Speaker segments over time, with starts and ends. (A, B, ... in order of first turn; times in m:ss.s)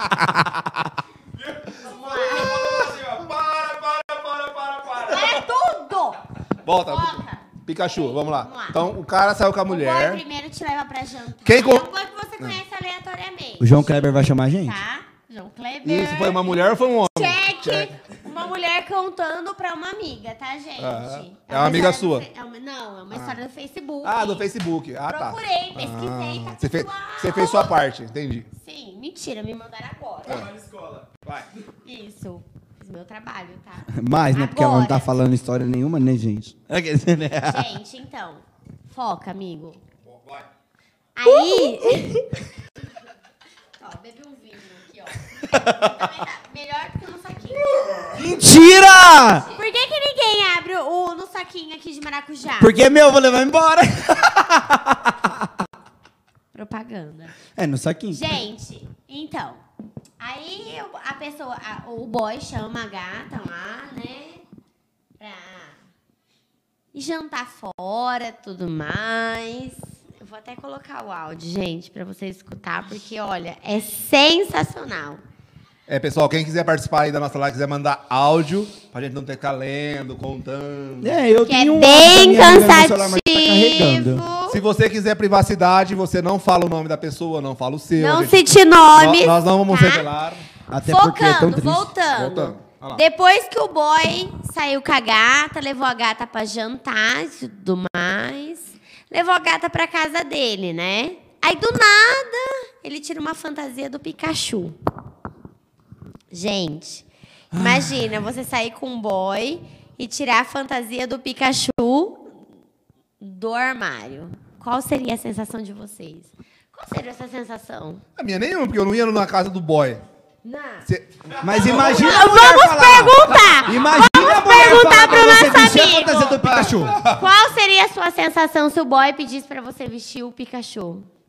0:01.4-0:05.1 A
0:01.8-0:02.6 B
0:02.6-0:05.1 C
0:05.0-0:08.8 B
0:06.6-0:10.2 C
0:09.7-0:13.9 B
0:11.4-0:11.9 C
0:13.6-0:14.8 D
0:14.6-0:24.4 B
0:15.8-0:17.9 C
0:20.8-0:22.3 C
0:23.1-0:23.4 C
0:24.0-0:28.5 C
0:25.1-0:27.7 B
0:28.6-0:30.5 B
0:30.2-0:31.1 A
0:31.8-0:35.1 B
0:33.9-0:37.7 D
0:37.4-0:39.8 B
0:40.1-0:40.4 C
0:41.2-0:42.2 B
0:43.8-0:47.7 B
0:45.4-0:46.0 D
0:47.8-0:48.1 C
0:48.1-0:49.5 D
0:48.5-0:52.7 B
0:52.6-0:55.6 D
0:56.5-0:57.4 B
0:57.6-0:58.4 D
0:58.1-0:59.6 B
1:00.2-1:04.4 B
1:05.2-1:05.8 B
1:06.9-1:15.2 B
1:15.9-1:21.2 C
1:21.0-1:24.2 D
1:21.5-1:24.6 B
1:24.5-1:28.4 C
1:28.0-1:30.1 B
1:28.9-1:30.4 C
1:30.7-1:31.9 D
1:30.7-1:44.8 B
1:32.1-1:33.0 C
1:46.3-1:52.2 B
1:47.5-1:48.2 D
1:53.2-1:58.0 B
1:58.2-2:00.0 C
2:00.4-2:00.9 B
2:00.8-2:02.1 C
2:01.4-2:07.0 D
2:01.6-2:06.5 B
2:06.4-2:07.2 C
2:07.0-2:11.1 B